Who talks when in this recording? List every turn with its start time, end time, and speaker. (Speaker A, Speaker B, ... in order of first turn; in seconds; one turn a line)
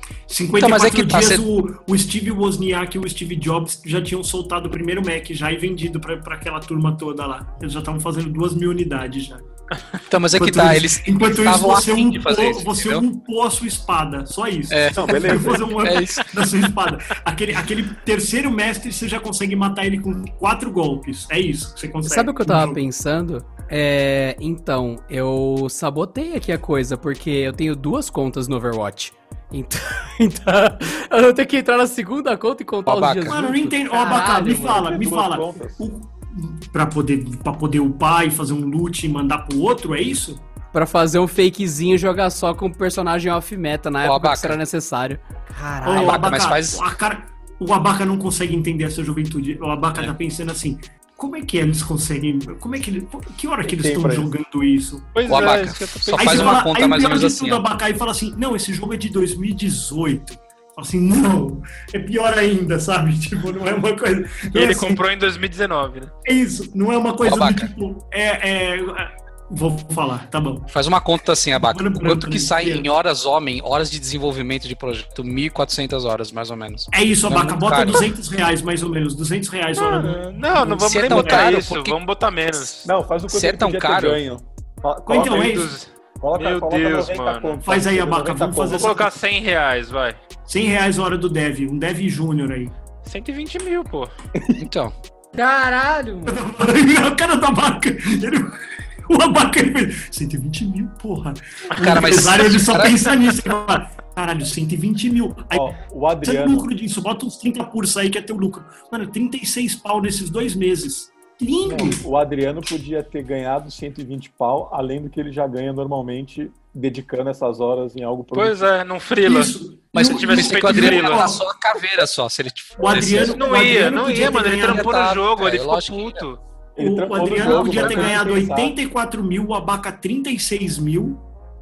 Speaker A: 0.3-9.4
Speaker B: 0.6-1.4
Speaker B: 10.1-13.1
Speaker A: 10.3-22.8
Speaker B: 14.7-16.6
Speaker C: 14.9-15.8
Speaker D: 22.1-34.9
Speaker B: 32.9-33.6
Speaker A: 33.3-40.4
Speaker C: 34.6-35.9
Speaker D: 40.7-46.2
Speaker B: 44.0-44.6
Speaker A: 45.9-55.2
Speaker B: 46.0-46.9
Speaker C: 53.6-54.3
Speaker E: 55.1-56.6
Speaker B: 55.3-57.6
Speaker A: 56.2-65.0
Speaker E: 64.5-66.1
Speaker A: 66.2-70.7
Speaker B: 67.2-67.7
Speaker B: 70.7-78.1
Speaker A: 71.5-72.9
Speaker A: 76.9-81.5
Speaker E: 79.7-82.9
Speaker B: 80.8-82.0
Speaker C: 82.8-89.0
Speaker B: 83.3-84.2
Speaker A: 85.1-85.8
Speaker E: 85.1-87.6
Speaker A: 87.6-89.1
Speaker E: 88.7-90.2
Speaker A: 90.5-92.7
Speaker E: 93.0-94.1
Speaker C: 94.4-94.6
Speaker B: 94.6-94.9
Speaker D: 95.3-96.5
Speaker A: 96.3-105.7
Speaker B: 101.7-103.2
Speaker C: 105.5-106.7
Speaker A: 106.2-112.0
Speaker C: 111.6-118.7
Speaker E: 118.3-121.3
Speaker A: 119.2-121.5
Speaker B: 119.9-126.3
Speaker A: 122.8-125.0
Speaker E: 122.9-126.4
Speaker C: 126.8-128.8
Speaker A: 126.8-131.2
Speaker B: 127.4-128.1